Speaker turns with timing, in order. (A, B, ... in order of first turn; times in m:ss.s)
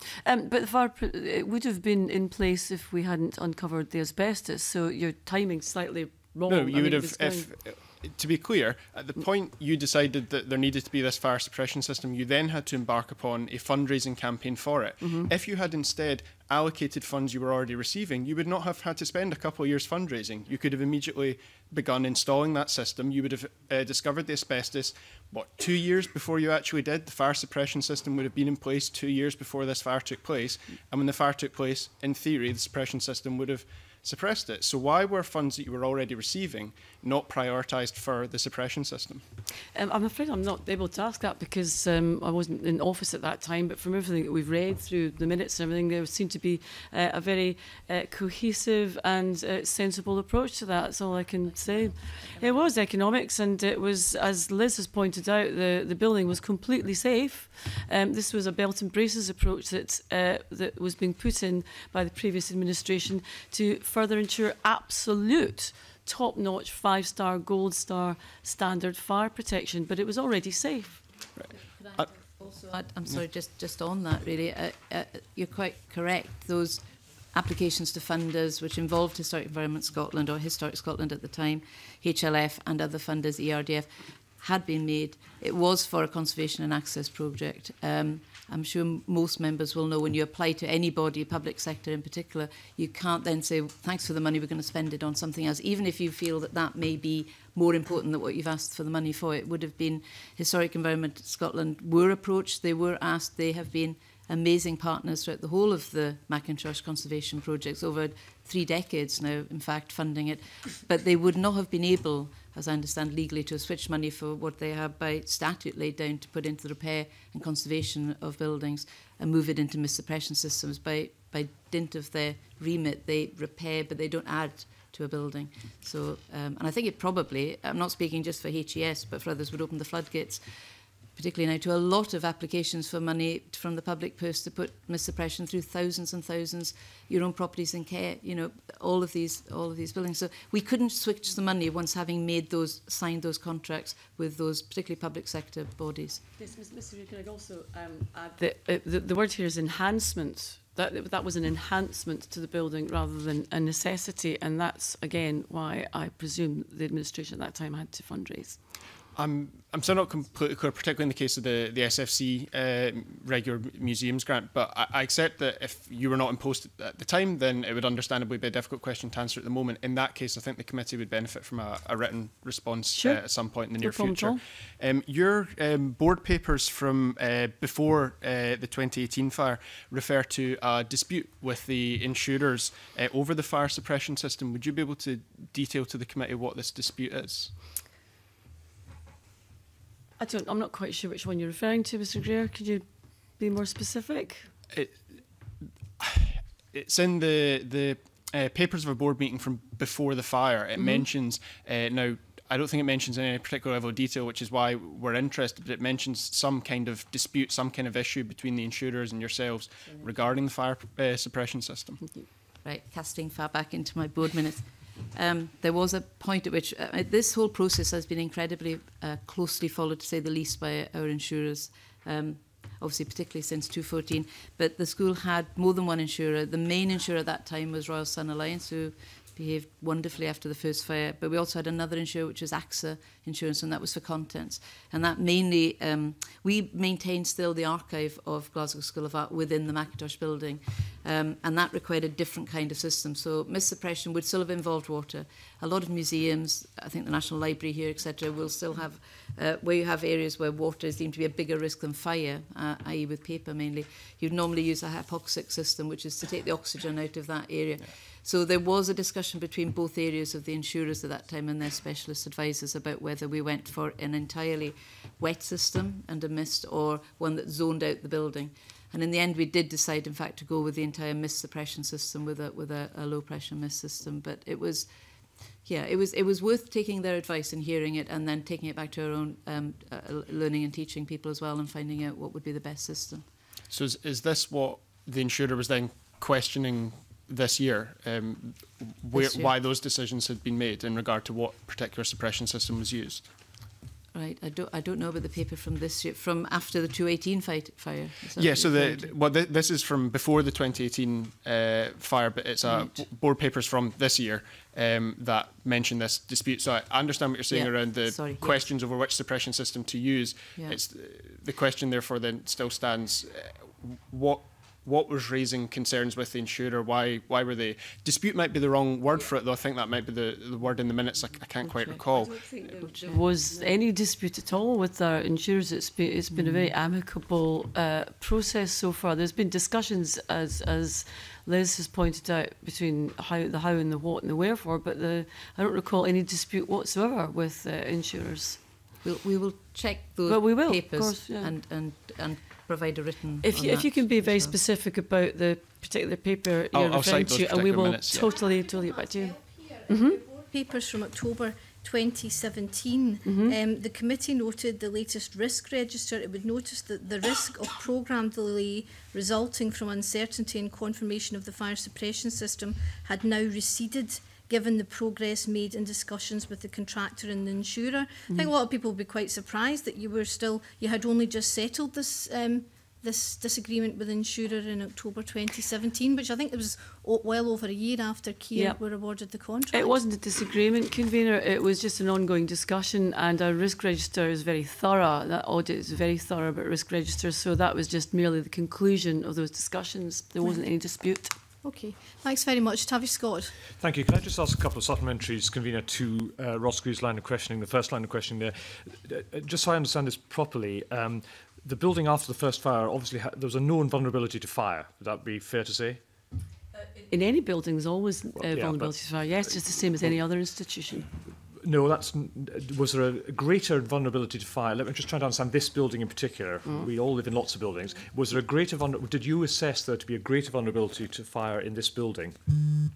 0:00.2-0:07.5 A
0:06.5-0:39.2 B
0:39.7-1:11.0 A
0:51.4-0:52.7 C
1:11.4-1:12.1 B
1:11.5-2:10.5 C
2:11.2-2:26.2 C
2:26.4-2:38.6 A
2:39.1-3:07.5 B
2:52.9-2:54.4 A
3:10.2-3:12.8 A
3:13.4-3:14.5 A
3:14.7-3:15.2 B
3:16.0-3:32.1 B
3:20.8-3:21.0 A
3:32.6-4:34.9 C
4:35.4-4:43.3 C
4:43.7-4:53.2 B
4:49.1-4:49.5 C
4:54.1-4:59.1 C
4:58.4-5:23.0 B
5:02.6-5:03.0 C
5:07.5-5:08.7 C
5:21.6-5:23.7 C
5:23.1-5:38.6 A
5:26.3-5:26.7 C
5:39.0-5:44.6 C
5:40.2-5:41.5 A
5:43.4-5:50.2 A
5:46.7-5:48.3 B
5:49.3-6:20.0 D
5:53.2-5:53.6 A
6:19.7-6:31.3 A
6:31.6-6:33.5 D
6:33.8-6:46.1 E
6:47.1-6:51.1 A
6:48.3-6:50.2 E
6:51.5-7:02.6 E
6:56.6-6:56.9 A